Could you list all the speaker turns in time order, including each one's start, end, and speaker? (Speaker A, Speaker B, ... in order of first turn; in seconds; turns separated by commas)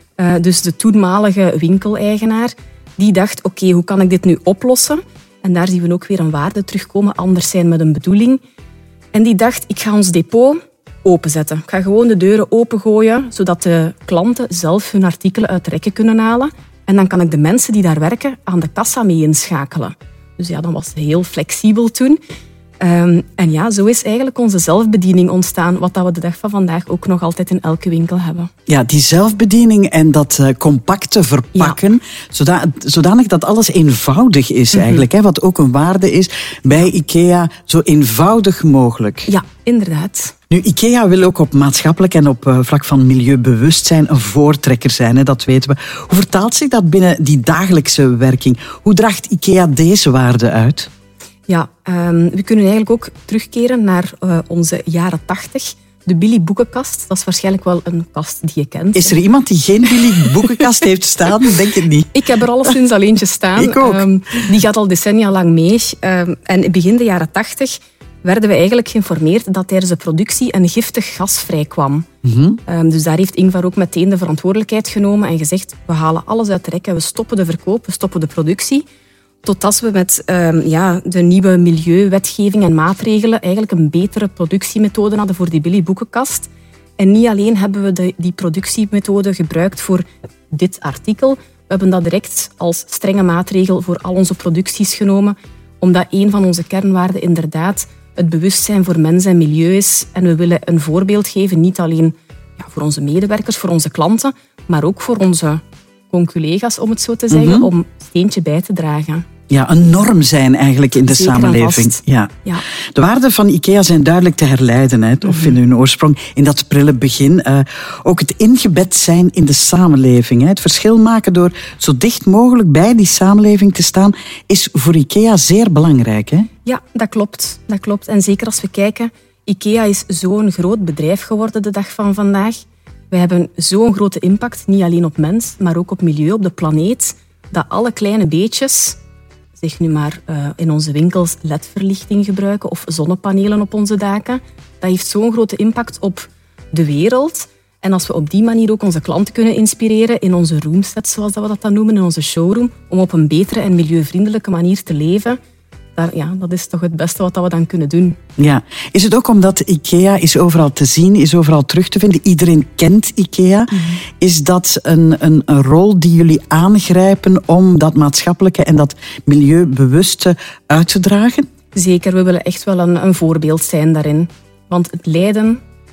Speaker A: 0.2-8.4, Speaker A: 9.1-22.2, Speaker A: 22.8-28.5, Speaker B: 28.7-39.3, Speaker A: 34.7-35.0, Speaker A: 39.3-40.3, Speaker B: 40.5-50.9, Speaker A: 51.5-59.2, Speaker B: 59.0-62.1, Speaker A: 62.1-72.1, Speaker B: 63.6-64.0, Speaker B: 72.2-72.6, Speaker A: 72.7-78.8, Speaker A: 79.4-109.3, Speaker B: 107.3-107.7, Speaker B: 109.5-112.3, Speaker A: 111.0-112.6, Speaker B: 113.0-126.5, Speaker A: 115.2-115.6, Speaker A: 126.7-139.0, Speaker A: 139.6-155.4, Speaker A: 156.0-158.2, Speaker B: 158.4-171.5, Speaker A: 163.7-164.0, Speaker A: 171.8-175.6